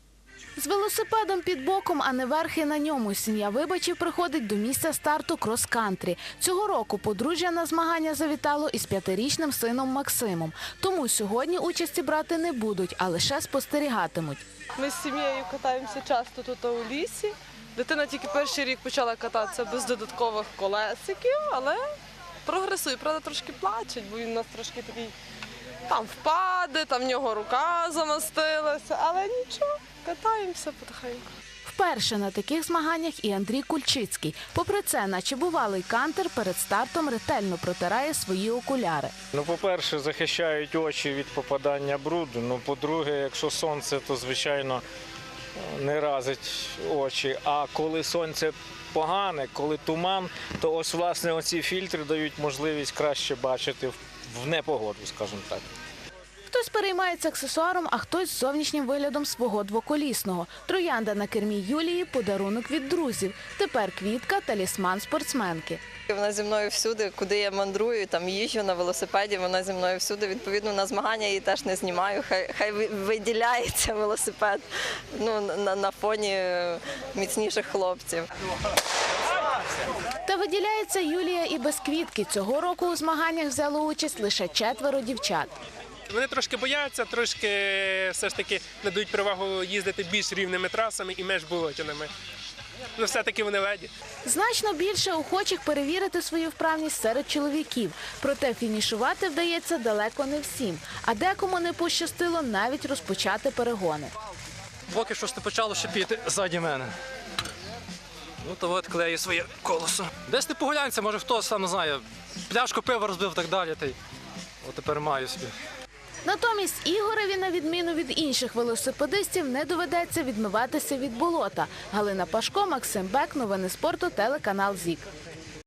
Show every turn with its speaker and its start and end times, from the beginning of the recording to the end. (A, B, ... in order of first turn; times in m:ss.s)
0:00.6-0:14.4 A
0:14.7-0:21.9 B
0:22.4-0:25.1 B
0:25.9-0:31.3 B
0:31.6-0:39.1 A
0:39.3-0:44.8 C
0:45.7-0:55.6 C
0:56.5-1:05.8 A
1:06.1-1:18.3 D
1:20.2-1:25.5 A
1:26.1-1:32.1 E
1:33.0-1:33.8 E
1:34.2-1:44.1 A
1:44.9-1:46.9 F
1:48.4-1:54.0 F
1:54.6-1:55.5 F
1:56.2-2:05.1 A